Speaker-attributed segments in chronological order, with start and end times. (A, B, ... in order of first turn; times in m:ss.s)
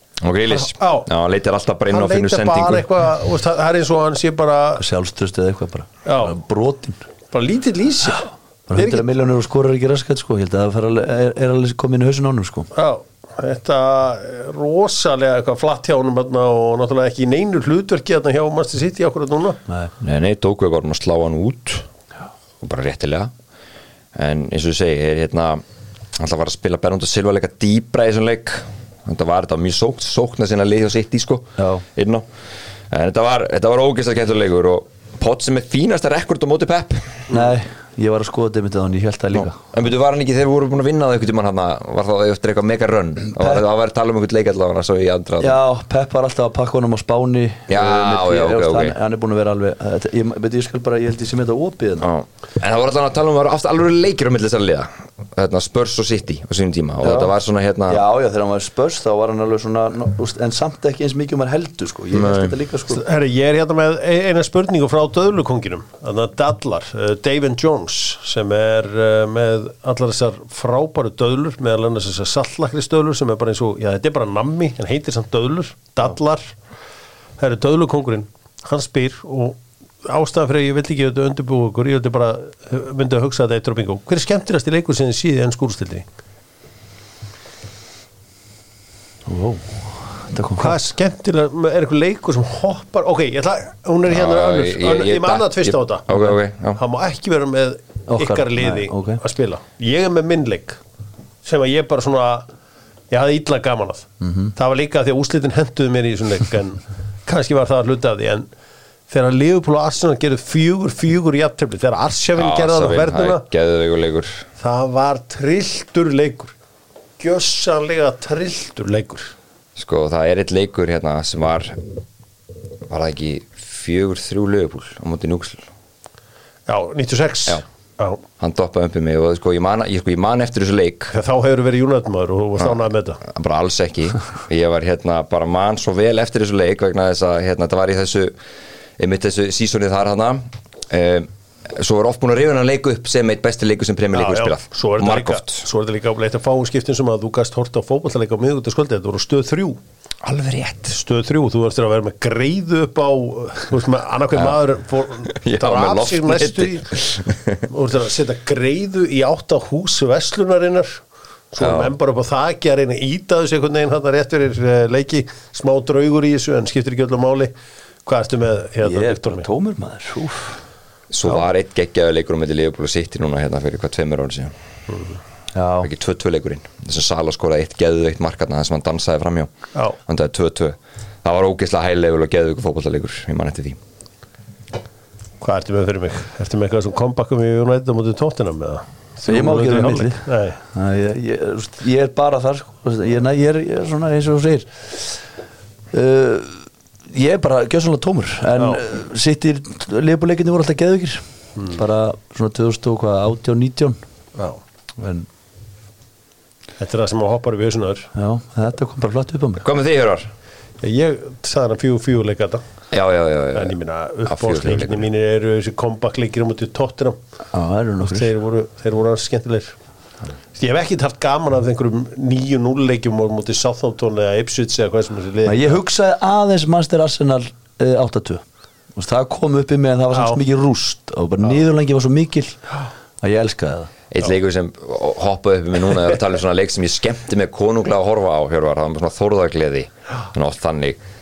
0:00.2-0:02.9 A
0:00.5-0:01.1 B
0:01.9-0:04.8 B
0:04.8-0:07.0 C
0:06.0-0:06.4 B
0:07.3-0:09.0 B
0:08.7-0:12.7 C
0:12.7-0:19.6 B
0:20.0-0:21.9 A
0:22.6-0:23.3 A
0:24.1-0:25.6 A
0:26.1-0:32.3 A
0:31.6-0:31.8 C
0:32.9-0:37.3 A
0:37.3-0:39.6 C
0:39.4-0:45.6 A
0:43.3-0:43.6 C
0:45.4-0:52.1 C
0:47.7-0:48.9 A
0:52.0-0:58.0 A
0:57.0-0:57.3 C
0:57.9-1:03.0 C
1:02.1-1:02.6 A
1:02.9-1:16.6 B
1:17.4-1:26.0 B
1:29.2-1:30.8 C
1:30.6-1:36.0 B
1:34.1-1:36.8 A
1:36.8-1:40.8 B
1:38.1-1:39.2 C
1:41.4-1:42.5 B
1:43.1-1:48.5 B
1:44.2-1:44.5 C
1:49.1-1:53.4 B
1:52.4-1:54.4 A
1:54.6-1:56.5 B
1:57.2-1:59.3 B
1:59.8-2:01.8 A
2:02.9-2:05.6 A
2:06.7-2:08.2 B
2:08.4-2:11.1 A
2:11.1-2:13.2 B
2:12.6-2:18.3 A
2:19.0-2:25.7 A
2:24.1-2:29.8 B
2:30.2-2:30.9 A
2:30.9-2:36.9 B
2:35.2-2:37.6 A
2:37.7-2:47.5 B
2:41.6-2:41.9 A
2:48.0-2:49.5 B
2:48.8-2:50.6 C
2:51.1-2:54.5 A
2:54.9-2:55.2 B
2:55.5-2:55.9 C
2:55.8-3:03.8 A
3:05.4-3:10.6 B
3:09.2-3:15.2 C
3:15.9-3:24.0 C
3:18.6-3:18.8 B
3:24.4-3:24.6 B
3:25.0-3:25.3 C
3:26.8-3:28.1 B
3:28.1-3:29.6 C
3:29.6-3:30.3 A
3:30.8-3:32.6 B
3:32.9-3:33.8 A
3:33.5-3:37.2 B
3:34.3-3:35.0 A
3:37.5-3:38.3 C
3:38.0-3:39.8 B
3:40.5-3:45.8 B
3:45.4-3:48.4 C
3:48.9-3:52.6 C
3:50.1-3:50.4 B
3:53.2-3:53.9 C
3:54.1-4:01.0 A